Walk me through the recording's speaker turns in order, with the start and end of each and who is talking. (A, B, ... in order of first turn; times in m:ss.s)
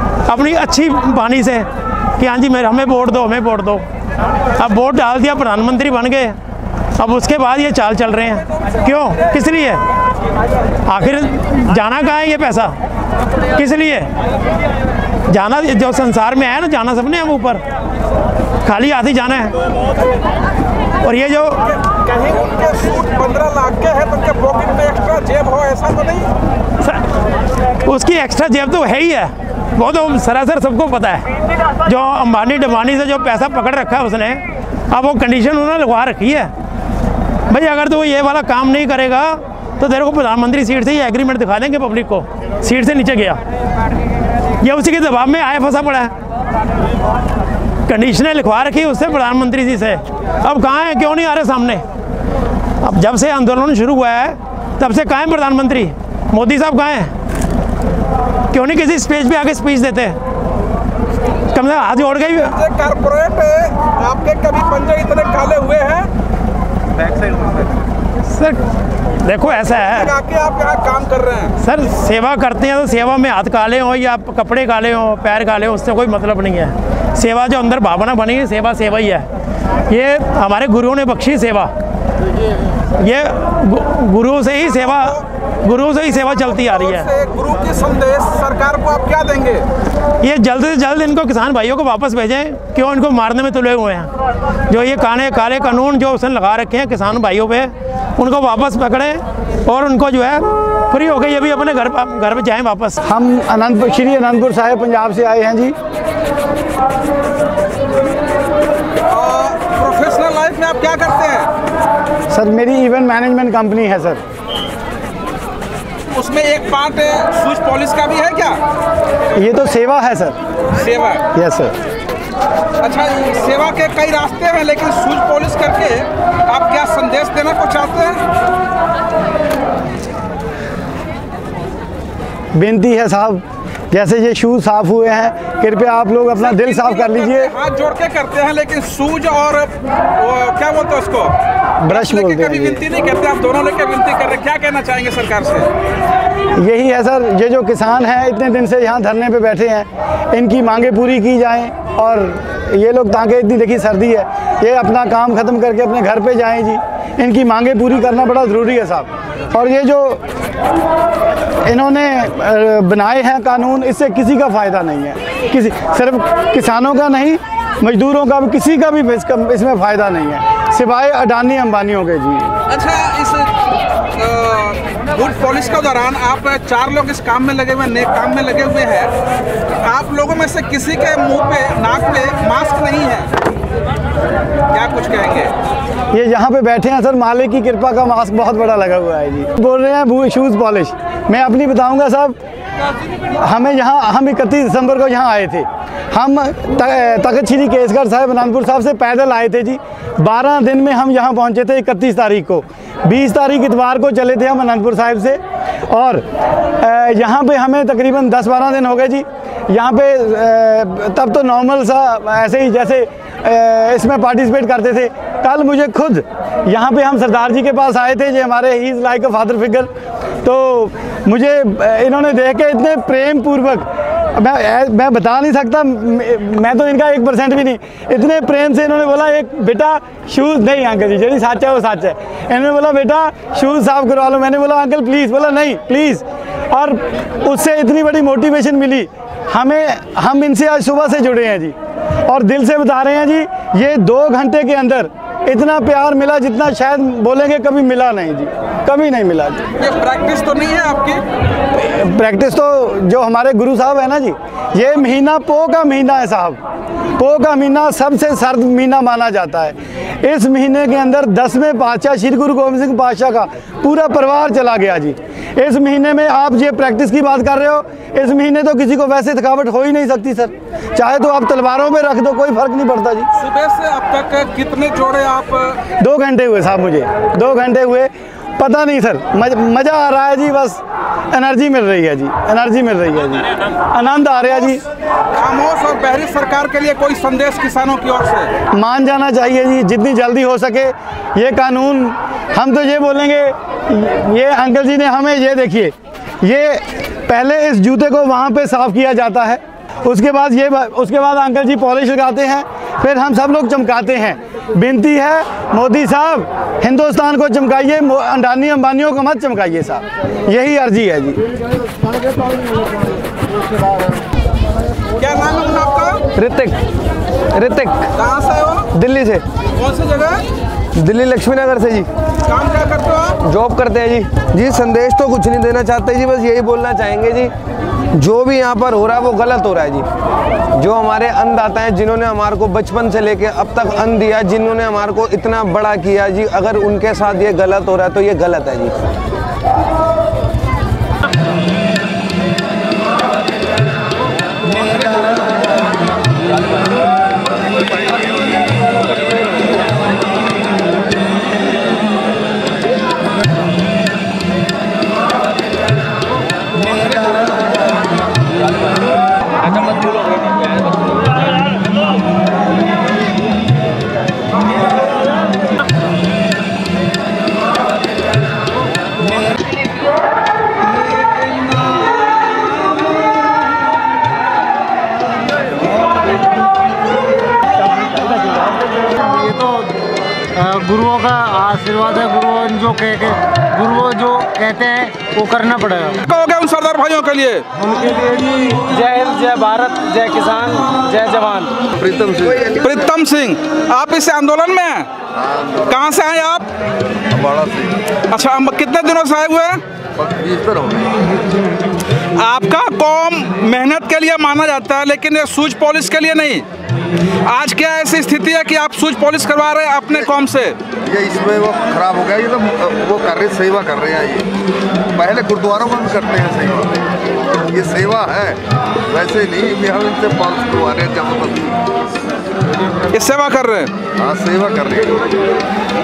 0:00.2-0:03.8 A
0:04.5-0:06.4 A
0:07.0-0:09.8 A
0:10.8-0:12.8 A
0:13.5-0:14.1 A
0:15.3-0:17.6 A
0:18.6-0:19.5 A
0:21.0-0:21.6 A
0:22.1-0:26.3 B
0:26.8-0:27.0 A
0:27.8-0:36.5 A
0:37.5-0:43.4 A
0:44.6-0:46.1 A
0:47.8-0:51.8 A
0:52.8-0:57.1 A
0:58.5-1:00.2 A
1:01.5-1:02.6 A
1:02.4-1:06.1 B
1:08.2-1:08.6 A
1:09.2-1:10.1 A
1:09.9-1:11.5 B
1:11.6-1:19.3 A
1:19.9-1:21.7 A
1:23.0-1:27.1 A
1:24.9-1:25.2 B
1:26.5-1:29.6 B
1:30.2-1:34.1 A
1:34.7-1:43.0 A
1:43.0-1:45.7 C
1:49.1-1:51.5 B
1:52.3-1:54.2 C
1:56.1-1:58.6 B
1:59.3-2:00.4 C
2:00.7-2:01.2 B
2:01.3-2:01.7 C
2:02.8-2:08.2 B
2:12.5-2:17.5 C
2:16.4-2:21.4 B
2:21.8-2:22.8 C
2:21.9-2:25.7 B
2:26.6-2:40.2 C
2:41.5-2:52.5 C
2:52.7-2:53.5 B
2:54.2-2:59.1 B
2:59.8-3:03.3 B
3:04.7-3:05.5 B
3:06.1-3:12.4 C
3:13.3-3:26.2 C
3:26.8-3:39.9 C
3:40.4-4:01.7 C
4:02.2-4:09.6 C
4:09.8-4:11.2 B
4:11.7-4:16.6 C
4:17.2-4:33.3 C
4:33.3-4:35.8 B
4:36.0-4:40.8 C
4:41.3-4:44.8 C
4:45.3-4:48.5 B
4:48.7-5:11.4 C
5:15.2-5:16.2 B
5:16.3-5:16.8 D
5:17.5-5:18.1 D
5:18.2-5:18.9 B
5:18.9-5:19.4 D
5:19.8-5:20.4 B
5:20.9-5:22.1 D
5:22.5-5:23.4 B
5:23.4-5:27.5 D
5:28.1-5:30.1 D
5:30.7-5:38.9 D
6:19.2-6:19.8 E
6:20.7-6:26.1 E
6:26.3-6:27.6 B
6:27.8-6:31.6 E
6:32.0-6:32.8 F
6:32.8-6:35.1 B
6:35.3-6:36.1 F
6:35.9-6:36.7 B
6:37.3-6:38.0 F
6:38.3-6:39.8 B
6:40.2-6:41.1 F
6:42.4-6:46.6 B
6:47.5-6:50.8 B
6:51.0-6:54.5 F
6:55.1-6:57.0 F
6:57.7-7:01.8 F
7:03.1-7:03.9 B
7:04.2-7:05.3 F